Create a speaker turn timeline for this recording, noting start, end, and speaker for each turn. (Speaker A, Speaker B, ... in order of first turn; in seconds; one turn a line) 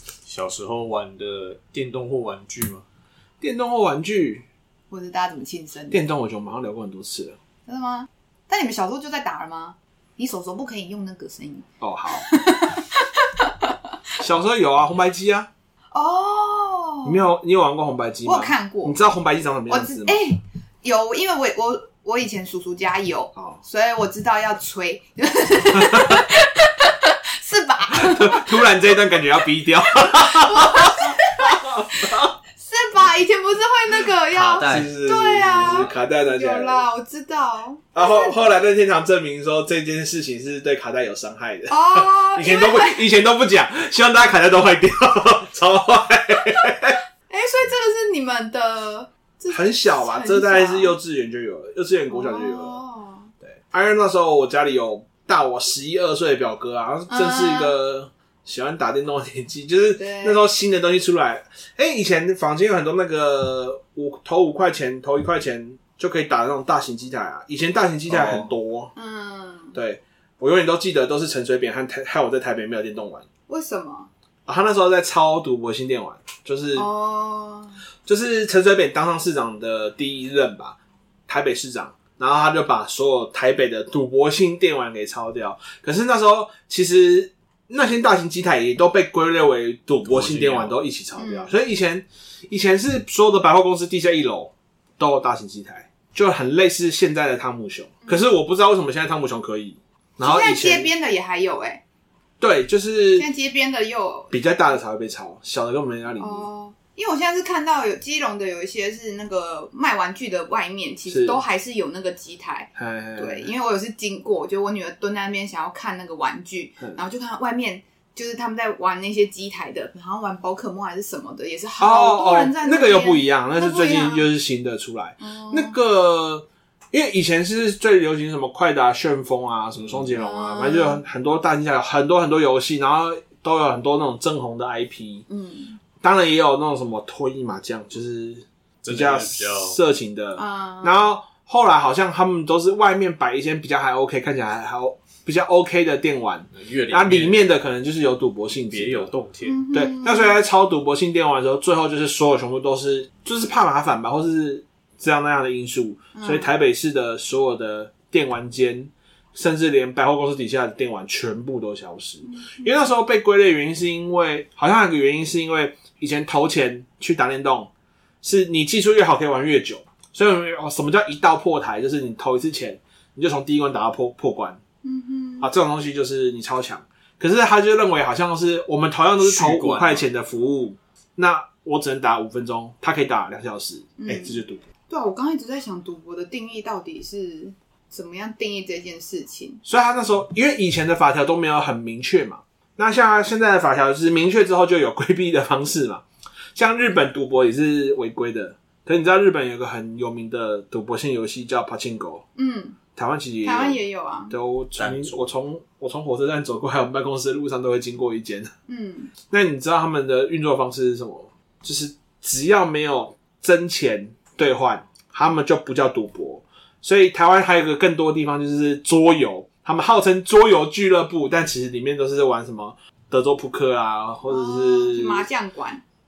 Speaker A: 0.2-2.8
Speaker B: 3.4-4.4
Speaker C: 4.9-6.1
Speaker B: 5.9-7.4
Speaker C: 7.7-13.8
Speaker B: 11.8-12.2
Speaker B: 14.2-15.5
Speaker C: 15.9-17.2
Speaker B: 17.0-20.2
Speaker C: 18.2-19.0
Speaker C: 19.7-28.8
Speaker B: 25.9-26.2
Speaker B: 27.9-32.3
Speaker C: 29.9-38.4
Speaker A: 34.3-34.9
Speaker B: 34.6-36.8
Speaker B: 37.9-47.0
Speaker C: 41.7-43.0
Speaker C: 46.5-51.0
Speaker B: 49.5-52.8
Speaker C: 52.1-53.3
Speaker B: 53.4-68.9
Speaker C: 57.1-57.7
Speaker C: 60.0-60.4
Speaker C: 69.0-69.8
Speaker B: 69.7-73.2
Speaker C: 73.5-74.1
Speaker B: 74.5-76.9
Speaker C: 76.7-77.8
Speaker B: 78.0-80.8
Speaker B: 81.3-100.9
Speaker A: 90.0-90.8
Speaker C: 91.2-91.5
Speaker C: 100.2-101.8
Speaker B: 102.4-103.3
Speaker C: 103.1-104.3
Speaker B: 104.3-106.5
Speaker C: 106.2-124.3
Speaker B: 111.1-111.4
Speaker B: 112.8-113.5
Speaker B: 121.8-135.2
Speaker C: 125.2-125.8
Speaker A: 129.8-130.0
Speaker C: 130.1-131.0
Speaker C: 135.3-135.8
Speaker B: 136.0-149.1
Speaker A: 138.8-139.8
Speaker C: 140.3-141.1
Speaker A: 146.5-147.5
Speaker A: 148.7-149.6
Speaker C: 149.4-150.4
Speaker B: 149.7-167.7
Speaker C: 156.1-156.5
Speaker C: 162.2-162.7
Speaker B: 168.2-174.6
Speaker C: 174.8-175.5
Speaker B: 175.4-184.6
Speaker A: 179.2-180.0
Speaker C: 184.0-189.6
Speaker B: 189.6-202.2
Speaker C: 202.3-202.8
Speaker B: 202.9-208.5
Speaker C: 203.4-204.3
Speaker A: 204.8-205.3
Speaker C: 208.7-209.1
Speaker B: 209.3-225.3
Speaker C: 224.3-225.8